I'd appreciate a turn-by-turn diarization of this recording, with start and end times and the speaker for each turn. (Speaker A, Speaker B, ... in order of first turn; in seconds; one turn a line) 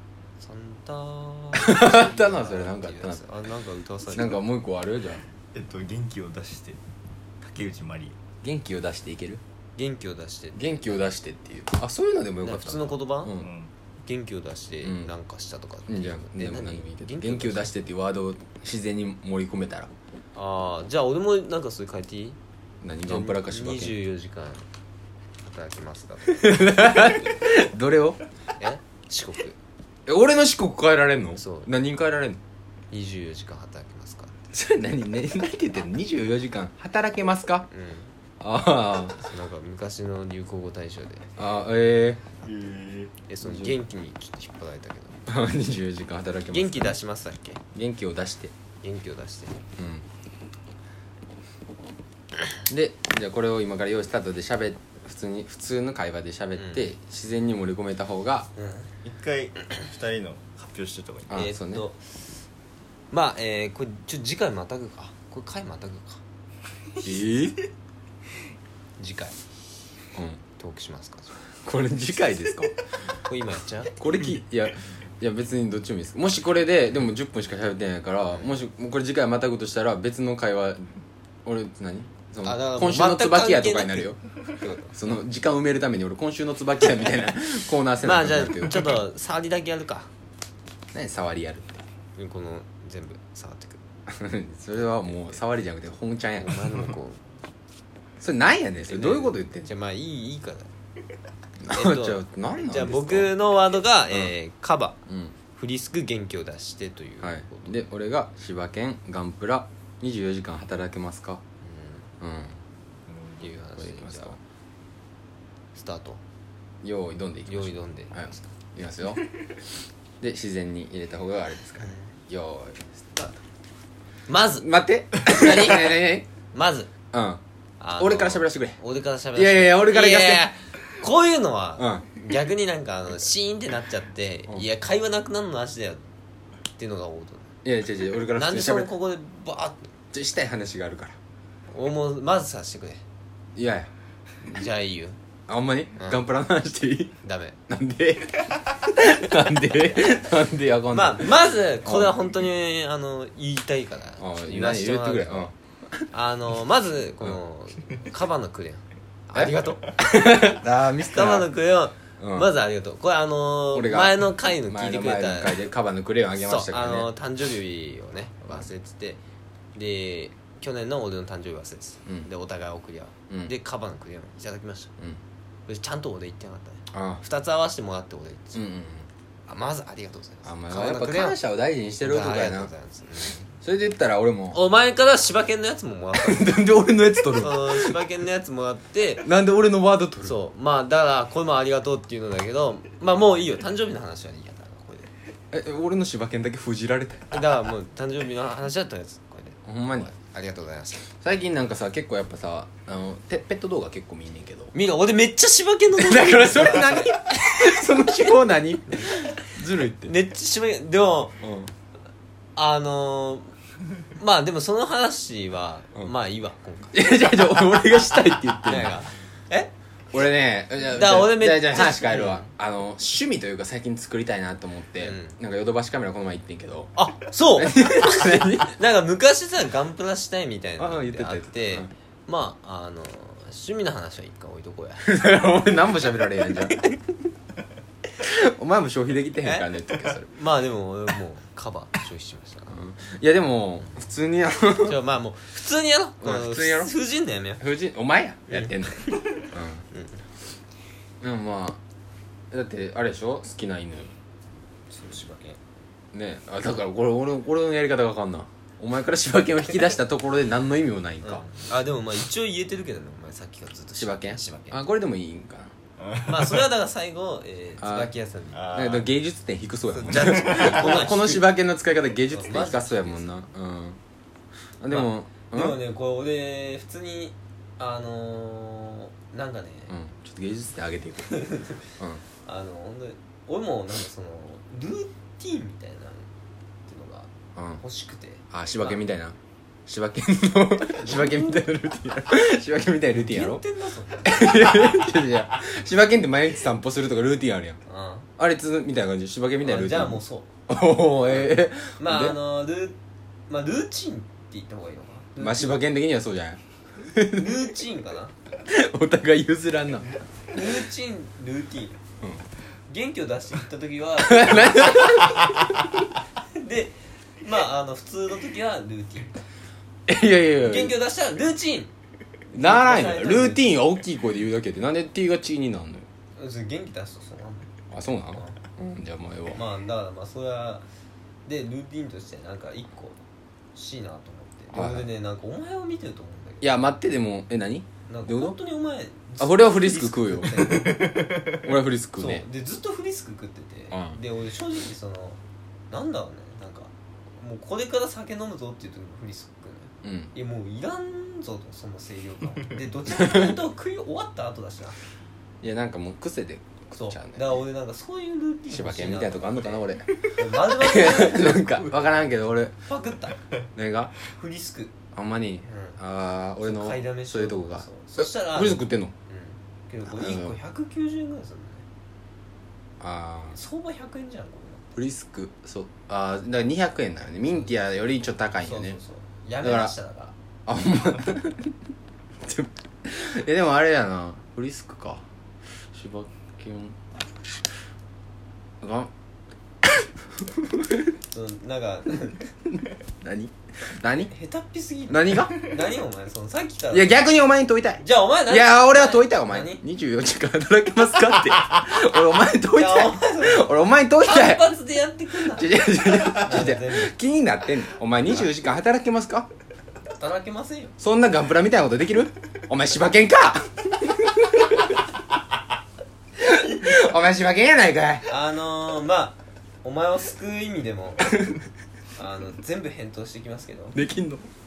Speaker A: 0.4-4.4
Speaker B: 1.6-3.2
Speaker B: 4.1-5.2
Speaker C: 5.5-6.8
Speaker C: 7.4-8.2
Speaker B: 8.4-9.4
Speaker A: 9.8-11.0
Speaker B: 10.6-13.5
Speaker A: 12.4-13.3
Speaker C: 13.4-13.7
Speaker A: 14.0-17.8
Speaker B: 14.8-15.1
Speaker B: 15.9-19.9
Speaker A: 20.4-22.4
Speaker B: 22.8-23.9
Speaker A: 23.1-24.7
Speaker A: 25.4-27.3
Speaker B: 26.3-28.2
Speaker A: 28.6-29.6
Speaker B: 30.1-32.4
Speaker A: 31.4-31.7
Speaker A: 32.9-34.3
Speaker B: 34.5-37.7
Speaker A: 37.7-38.1
Speaker B: 38.4-39.2
Speaker A: 39.2-41.3
Speaker B: 41.4-42.2
Speaker C: 42.4-43.1
Speaker A: 43.3-45.2
Speaker B: 43.4-43.8
Speaker B: 45.3-47.0
Speaker A: 46.5-47.6
Speaker B: 47.7-48.5
Speaker A: 48.8-49.6
Speaker B: 49.8-50.1
Speaker B: 52.7-58.5
Speaker A: 56.6-56.9
Speaker A: 58.6-58.9
Speaker C: 59.0-61.4
Speaker B: 61.3-61.9
Speaker A: 61.3-62.1
Speaker A: 63.1-66.2
Speaker B: 67.0-67.6
Speaker A: 69.0-69.4
Speaker B: 70.1-70.4
Speaker A: 70.6-71.4
Speaker B: 71.6-72.7
Speaker A: 73.2-74.0
Speaker B: 74.0-80.9
Speaker B: 81.5-84.2
Speaker A: 82.4-85.0
Speaker B: 84.9-88.9
Speaker A: 88.0-90.1
Speaker B: 90.9-91.8
Speaker A: 92.2-93.8
Speaker B: 94.1-96.8
Speaker A: 94.8-95.2
Speaker A: 96.4-97.2
Speaker B: 98.2-99.7
Speaker A: 98.9-100.7
Speaker B: 101.6-103.3
Speaker A: 101.7-105.0
Speaker B: 105.1-105.3
Speaker A: 105.5-107.8
Speaker B: 107.2-111.4
Speaker A: 111.6-112.1
Speaker B: 112.2-112.6
Speaker C: 113.1-113.4
Speaker A: 113.4-114.4
Speaker B: 113.8-114.4
Speaker A: 115.8-116.2
Speaker B: 116.8-119.3
Speaker A: 117.5-118.5
Speaker B: 120.2-123.4
Speaker A: 124.3-126.9
Speaker B: 124.6-126.3
Speaker B: 127.1-127.4
Speaker A: 127.8-136.0
Speaker B: 128.0-128.8
Speaker B: 129.3-130.5
Speaker B: 131.8-132.1
Speaker A: 136.8-137.6
Speaker B: 137.6-138.9
Speaker A: 138.3-139.9
Speaker B: 140.1-141.2
Speaker A: 141.7-143.0
Speaker B: 143.6-143.9
Speaker A: 144.4-145.2
Speaker B: 145.5-147.2
Speaker A: 146.0-146.2
Speaker A: 147.2-147.6
Speaker B: 147.7-152.2
Speaker A: 150.9-155.5
Speaker B: 154.2-156.0
Speaker A: 156.1-165.6
Speaker B: 159.3-161.5
Speaker B: 162.2-162.5
Speaker B: 163.7-167.1
Speaker A: 166.4-169.2
Speaker A: 169.8-174.9
Speaker A: 175.7-178.6
Speaker B: 176.9-177.2
Speaker B: 178.5-179.1
Speaker A: 179.5-181.4
Speaker B: 180.4-182.7
Speaker A: 182.0-183.5
Speaker B: 183.6-184.6
Speaker A: 184.5-186.6
Speaker B: 186.1-188.0
Speaker A: 187.3-189.3
Speaker B: 189.2-190.4
Speaker A: 190.2-195.1
Speaker B: 195.5-197.3
Speaker A: 197.3-201.1
Speaker B: 199.7-200.1
Speaker B: 201.2-204.7
Speaker A: 204.7-207.2
Speaker B: 205.9-210.2
Speaker A: 209.0-209.3
Speaker A: 210.0-211.4
Speaker B: 211.4-211.7
Speaker A: 212.6-213.6
Speaker A: 214.2-217.4
Speaker B: 216.9-219.0
Speaker A: 218.6-219.7
Speaker B: 220.1-227.0
Speaker A: 220.9-222.5
Speaker A: 225.0-225.4
Speaker A: 226.9-235.2
Speaker B: 227.6-228.8
Speaker B: 230.8-231.9
Speaker B: 235.0-236.8
Speaker B: 238.2-240.3
Speaker A: 239.4-242.9
Speaker B: 242.7-245.0
Speaker A: 244.8-247.6
Speaker B: 246.2-246.9
Speaker B: 247.6-249.8
Speaker A: 248.5-249.2
Speaker A: 249.9-250.2
Speaker B: 251.2-251.8
Speaker B: 252.5-254.1
Speaker A: 254.9-255.6
Speaker B: 256.1-261.5
Speaker A: 261.2-264.8
Speaker B: 264.0-265.8
Speaker C: 266.0-266.6
Speaker A: 266.2-268.6
Speaker B: 267.8-268.1
Speaker C: 268.5-269.1
Speaker B: 268.7-274.0
Speaker A: 270.0-271.5
Speaker C: 270.2-270.9
Speaker A: 272.3-273.3
Speaker B: 274.8-275.8
Speaker A: 274.9-279.9
Speaker B: 279.9-281.4
Speaker A: 281.3-281.9
Speaker A: 282.4-286.3
Speaker A: 286.9-289.0
Speaker B: 287.6-287.8
Speaker B: 288.5-293.6
Speaker A: 290.9-291.7
Speaker A: 293.1-294.7
Speaker B: 294.2-297.8
Speaker A: 297.9-298.3
Speaker B: 298.4-302.4
Speaker A: 299.6-300.5
Speaker A: 301.3-303.0
Speaker A: 303.5-305.8
Speaker B: 305.4-307.6
Speaker A: 307.3-308.4
Speaker B: 308.6-310.2
Speaker A: 310.5-312.0
Speaker A: 312.9-315.5
Speaker B: 314.2-316.0
Speaker A: 316.5-319.3
Speaker B: 320.1-321.0
Speaker A: 320.6-321.9
Speaker A: 322.5-323.7
Speaker B: 322.5-326.1
Speaker A: 326.4-327.7
Speaker B: 327.9-329.6
Speaker A: 328.3-328.6
Speaker A: 329.5-330.9
Speaker A: 331.5-333.2
Speaker A: 333.8-336.9
Speaker B: 334.7-335.1
Speaker B: 336.6-338.6
Speaker A: 338.1-341.3
Speaker B: 339.4-340.9
Speaker C: 340.6-341.7
Speaker B: 341.5-342.4
Speaker A: 342.2-345.4
Speaker B: 343.9-344.2
Speaker A: 345.9-355.0
Speaker B: 350.0-350.3
Speaker B: 353.1-353.6
Speaker B: 355.6-357.6
Speaker A: 356.9-361.9
Speaker B: 358.7-362.8
Speaker A: 362.9-363.4
Speaker B: 363.8-364.1
Speaker A: 364.3-364.9
Speaker B: 365.1-369.1
Speaker A: 365.6-366.0
Speaker A: 366.6-371.9
Speaker B: 370.1-370.6
Speaker B: 373.0-373.6
Speaker A: 373.5-374.9
Speaker B: 374.9-379.0
Speaker A: 378.6-380.3
Speaker B: 379.6-379.9
Speaker B: 380.7-381.8
Speaker B: 382.4-385.2
Speaker B: 385.9-387.0
Speaker B: 388.8-389.1
Speaker B: 389.8-391.1
Speaker A: 391.3-392.4
Speaker B: 393.2-394.3
Speaker A: 394.3-397.2
Speaker B: 395.1-395.6
Speaker B: 396.9-404.8
Speaker A: 398.0-399.8
Speaker A: 402.7-407.2
Speaker B: 405.3-409.5
Speaker A: 410.2-410.9
Speaker B: 411.0-414.9
Speaker B: 416.4-418.3
Speaker A: 418.2-421.4
Speaker A: 422.2-424.0
Speaker B: 423.9-424.5